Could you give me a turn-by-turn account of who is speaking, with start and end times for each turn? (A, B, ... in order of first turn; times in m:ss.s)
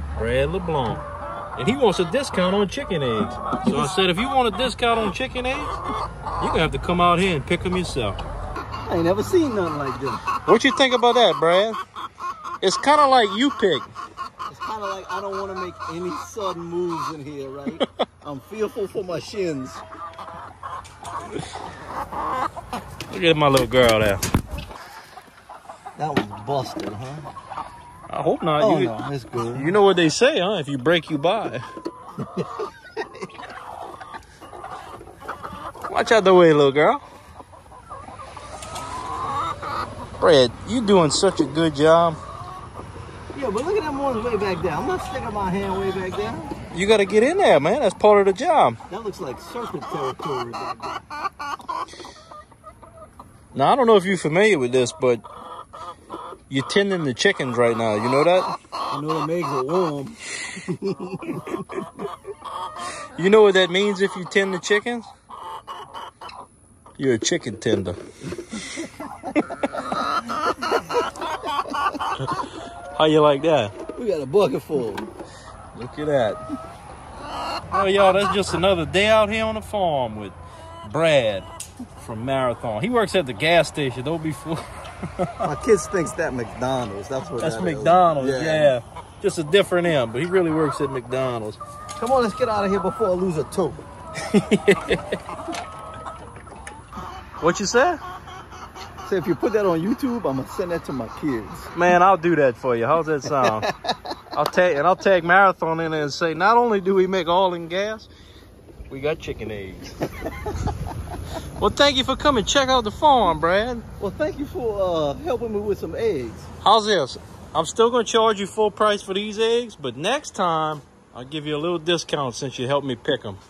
0:00.2-0:01.0 A
0:01.5-0:05.7 A
0:06.4-0:08.2 A
0:08.8-0:10.2 B
0:10.4-0:11.8 A
0:12.6-0:13.9 A
0:14.5-0:19.8 B
0:23.1-0:24.2 A
0:26.0-0:27.3 B
0:28.1-0:28.9 A
0:28.6-0:29.8 B
0:29.5-0:31.6 A
0:32.2-0:33.2 B
0:35.9-0:37.0 A
0:40.2-0:42.2 A
0:43.3-0:46.5 B
0:46.7-0:48.8 A
0:48.9-0:51.0 B
0:53.5-0:55.2 A
0:56.5-0:58.5 A
0:58.9-1:01.9 B
1:03.2-1:05.1 A
1:07.0-1:08.0 A
1:08.5-1:09.1 B
1:12.2-1:13.7 A
1:13.9-1:15.1 B
1:15.7-1:16.4 A
1:17.7-1:25.4 A
1:25.4-1:28.8 B
1:27.4-1:31.6 A
1:32.0-1:33.8 B
1:34.2-1:35.2 A
1:37.4-1:38.0 A
1:39.0-1:41.7 B
1:41.7-1:43.7 A
1:43.4-1:43.9 B
1:44.3-1:48.1 A
1:48.9-1:50.0 A
1:51.6-1:53.8 A
1:54.0-1:56.5 B
1:56.6-2:03.4 A